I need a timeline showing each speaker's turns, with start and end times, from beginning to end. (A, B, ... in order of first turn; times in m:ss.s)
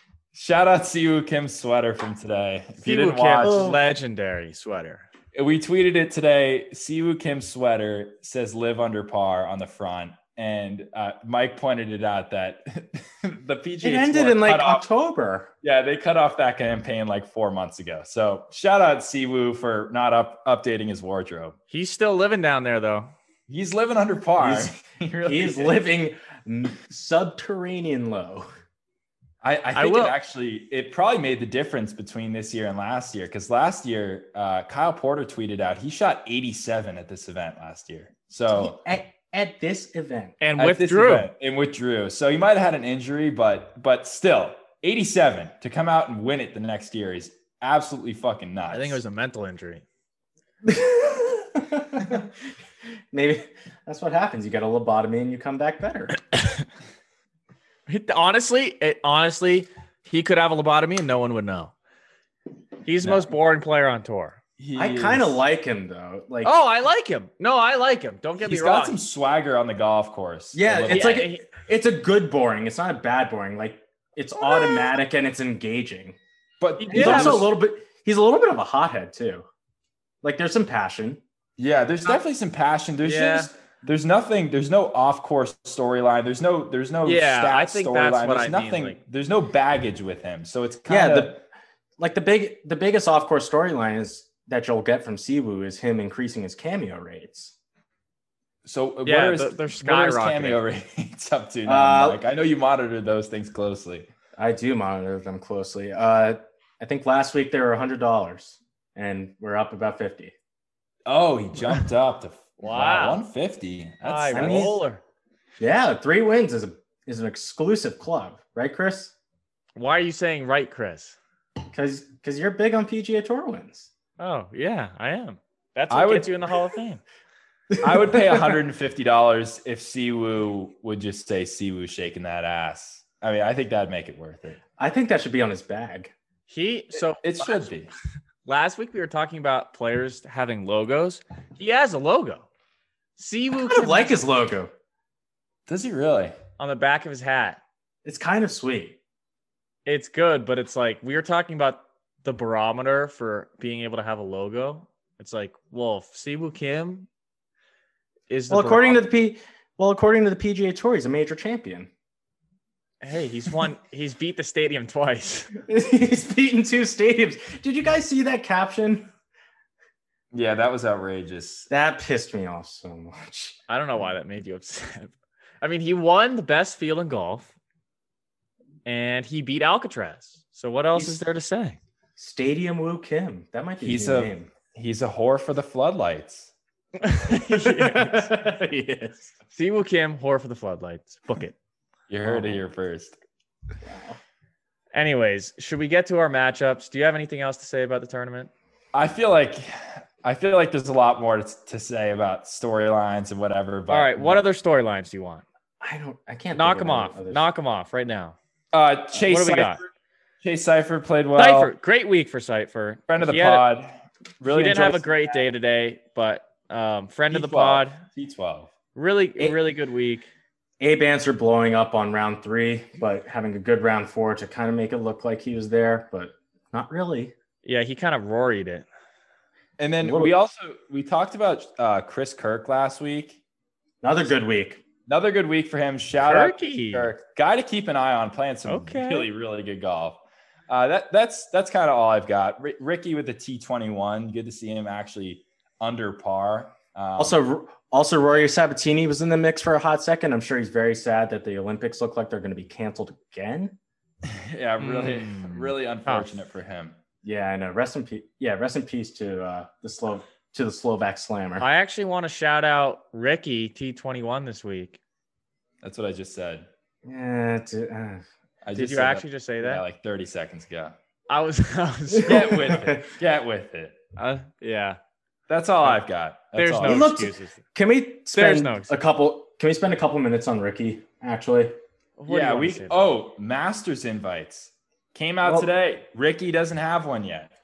0:00.3-0:03.8 A
0:02.8-0:05.1 B
0:03.4-0:03.8 C
0:05.3-0:14.9 A
0:13.8-0:15.5 C
0:15.6-0:21.6 A
0:21.7-0:23.1 B
0:23.5-0:25.8 A
0:24.4-0:28.5 C
0:29.4-0:38.8 A
0:29.8-0:30.2 B
0:38.5-0:40.4 C
0:40.4-0:41.3 B
0:40.6-0:49.0 A
0:48.7-0:49.8 B
0:50.6-0:52.3 C
0:53.1-0:56.2 C
0:57.9-1:01.7 B
1:02.8-1:04.4 B
1:04.6-1:05.4 A
1:04.8-1:06.6 C
1:06.4-1:09.0 B
1:08.4-1:11.3 A
1:10.5-1:16.2 C
1:10.9-1:11.4 B
1:14.4-1:14.9 B
1:16.6-1:17.5 A
1:16.8-1:17.5 B
1:16.9-1:19.5 C
1:20.2-1:21.2 C
1:21.6-1:31.4 A
1:23.0-1:23.5 B
1:27.0-1:29.0 B
1:30.9-1:31.4 C
1:32.0-1:37.6 C
1:38.6-1:44.1 A
1:39.0-1:40.6 B
1:41.7-1:42.2 C
1:44.4-1:50.3 C
1:51.1-1:54.8 A
1:52.6-1:53.2 B
1:54.0-1:55.0 B
1:54.3-1:54.8 C
1:55.6-1:59.1 C
1:59.8-2:01.2 B
2:01.7-2:03.9 C
2:04.2-2:07.0 B
2:05.9-2:06.3 A
2:07.7-2:08.6 C
2:07.8-2:14.6 A
2:14.8-2:16.1 C
2:16.5-2:17.6 B
2:17.2-2:17.9 A
2:18.5-2:22.5 B
2:23.2-2:24.2 B
2:23.6-2:24.7 C
2:25.7-2:26.4 A
2:26.6-2:27.6 B
2:28.0-2:29.0 C
2:29.9-2:37.1 B
2:38.3-2:39.0 B
2:38.5-2:41.9 C
2:43.0-2:45.5 B
2:45.7-2:49.1 C
2:50.3-2:51.7 A
2:51.7-2:53.6 C
2:53.7-2:57.5 B
2:58.8-3:01.8 B
3:01.0-3:01.2 C
3:02.2-3:04.5 C
3:03.8-3:06.5 A
3:07.0-3:08.3 B
3:07.3-3:09.3 C
3:09.5-3:11.6 B
3:12.1-3:13.2 A
3:12.2-3:12.6 C
3:13.8-3:14.2 C
3:14.9-3:18.5 B
3:18.9-3:24.4 A
3:23.9-3:25.4 B
3:25.8-3:27.4 C
3:26.5-3:28.4 B
3:28.7-3:29.9 A
3:29.2-3:29.8 B
3:30.4-3:31.7 A
3:31.4-3:33.6 B
3:33.1-3:35.0 A
3:34.5-3:38.0 B
3:37.3-3:38.7 A
3:39.0-3:40.3 B
3:40.8-3:47.3 C
3:47.6-3:48.9 B
3:49.8-3:53.4 A
3:50.0-3:50.4 C
3:54.0-3:54.8 C
3:55.1-4:07.4 A
3:56.2-3:57.1 B
3:58.7-3:59.3 B
4:07.2-4:13.8 C
4:14.3-4:17.0 A
4:14.8-4:16.3 B
4:17.2-4:21.7 C
4:21.6-4:25.0 B
4:25.8-4:26.7 A
4:27.0-4:28.2 C
4:28.6-4:31.0 A
4:28.8-4:29.8 B
4:31.3-4:32.9 B
4:32.1-4:33.1 C
4:32.2-4:34.0 A
4:34.2-4:35.0 B
4:35.5-4:37.1 A
4:36.6-4:37.6 B
4:36.8-4:41.8 C
4:38.3-4:38.9 B
4:42.2-4:43.1 B
4:42.3-4:47.5 A
4:45.4-4:45.7 C